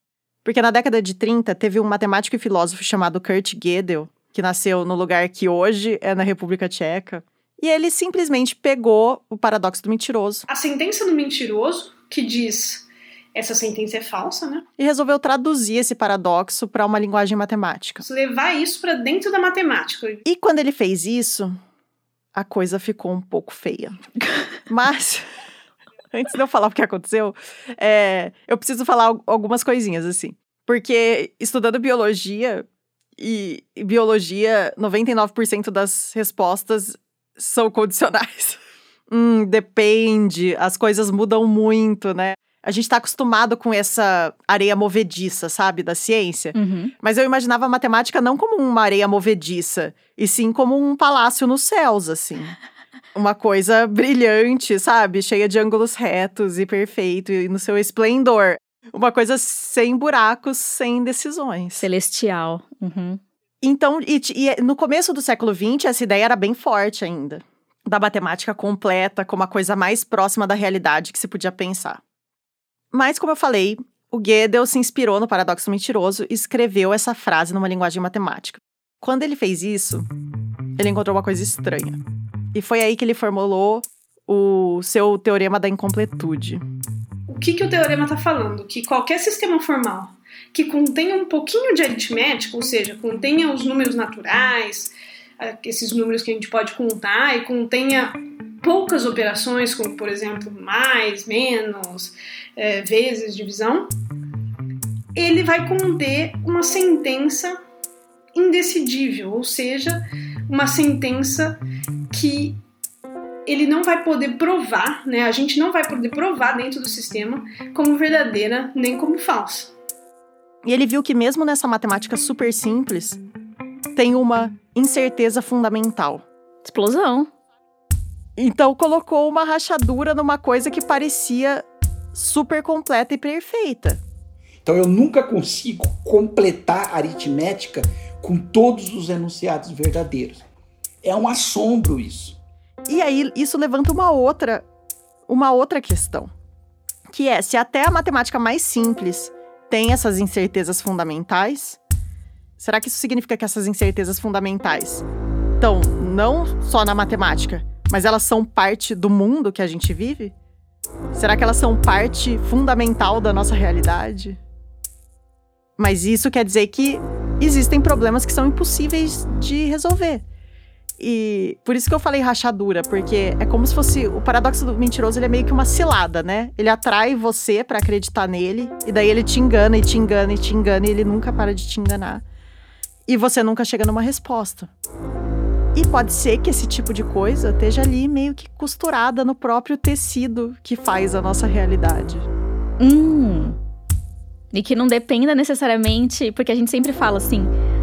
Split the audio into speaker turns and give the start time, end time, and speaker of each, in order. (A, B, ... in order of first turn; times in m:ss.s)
0:00.4-0:10.4 A
0:10.5-0:14.6 B
0:14.8-0:18.0 A
0:18.0-0:20.2 B
0:20.2-0:21.6 A
0:22.3-0:24.0 A
0:24.7-0:25.2 A
0:26.1-0:32.6 A
0:33.2-0:52.6 A
0:46.5-0:46.9 C
0:53.1-1:01.8 A
1:01.8-1:03.2 C
1:03.6-1:12.0 A
1:12.9-1:20.1 A
1:20.8-1:22.0 A
1:22.5-1:26.6 A
1:27.3-1:43.9 B
1:45.1-1:47.6 B
1:48.3-1:51.6 B
1:52.1-1:52.6 B
1:53.4-1:59.7 B
2:00.6-2:03.2 A
2:03.9-2:06.2 A
2:06.6-2:07.3 C
2:08.4-2:14.0 A
2:14.6-2:20.4 D
2:21.0-2:22.4 D
2:22.9-2:24.6 A
2:25.3-2:26.3 A
2:27.1-2:31.8 A
2:32.6-2:35.0 A
2:35.6-2:40.3 A
2:41.1-2:44.4 A
2:45.8-2:50.2 A
2:51.0-3:02.2 A
3:03.1-3:04.7 A
3:05.7-3:12.3 A
3:12.8-3:13.6 C
3:14.5-3:17.5 C